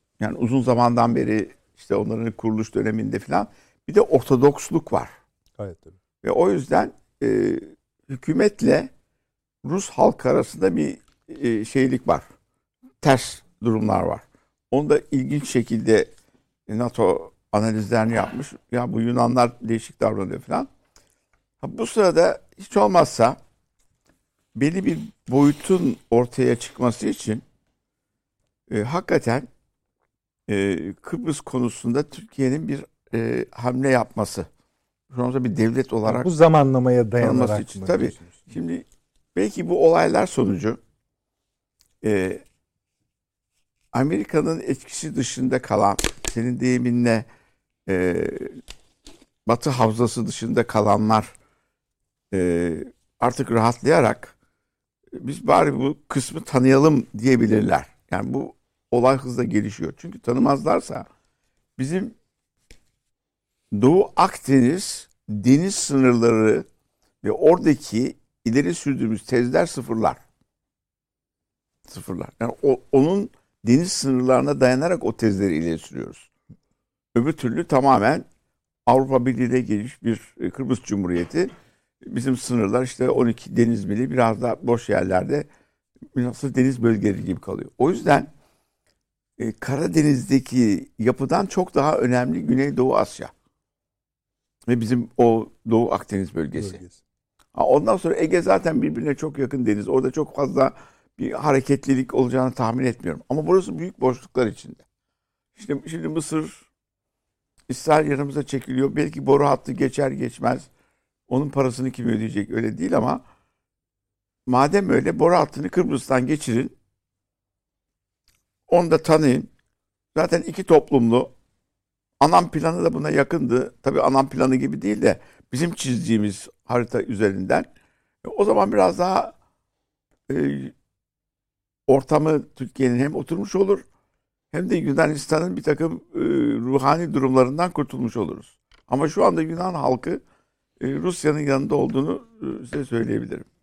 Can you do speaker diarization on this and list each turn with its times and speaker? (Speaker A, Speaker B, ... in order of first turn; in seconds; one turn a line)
Speaker A: 0.2-5.1
Speaker B: 5.6-6.0
Speaker A: 6.2-8.9
Speaker A: 9.6-12.2
Speaker A: 13.0-16.1
Speaker A: 16.7-20.7
Speaker A: 21.6-23.4
Speaker A: 24.5-27.4
Speaker A: 28.7-29.5
Speaker A: 30.5-34.5
Speaker A: 35.1-36.3
Speaker B: 36.0-38.5
Speaker A: 37.2-40.8
Speaker A: 42.0-42.4
Speaker A: 43.9-47.3
Speaker A: 47.9-48.6
Speaker A: 49.5-51.3
Speaker A: 52.3-54.3
Speaker A: 55.1-61.0
Speaker A: 61.8-62.1
Speaker A: 63.7-66.7
Speaker A: 67.2-70.2
Speaker A: 71.9-76.3
Speaker A: 77.1-78.2
Speaker A: 78.9-85.5
Speaker A: 86.1-88.3
Speaker A: 89.4-93.3
Speaker A: 94.7-96.8
Speaker B: 96.5-97.0
Speaker A: 97.5-104.8
Speaker A: 105.5-106.6
Speaker A: 107.7-110.7
Speaker A: 111.3-113.2
Speaker A: 114.5-116.7
Speaker A: 118.7-119.5
Speaker A: 120.1-121.3
Speaker A: 122.2-127.7
Speaker A: 128.2-129.3
Speaker A: 130.3-130.7
Speaker A: 131.9-133.8
Speaker A: 134.5-140.2
Speaker A: 140.8-143.4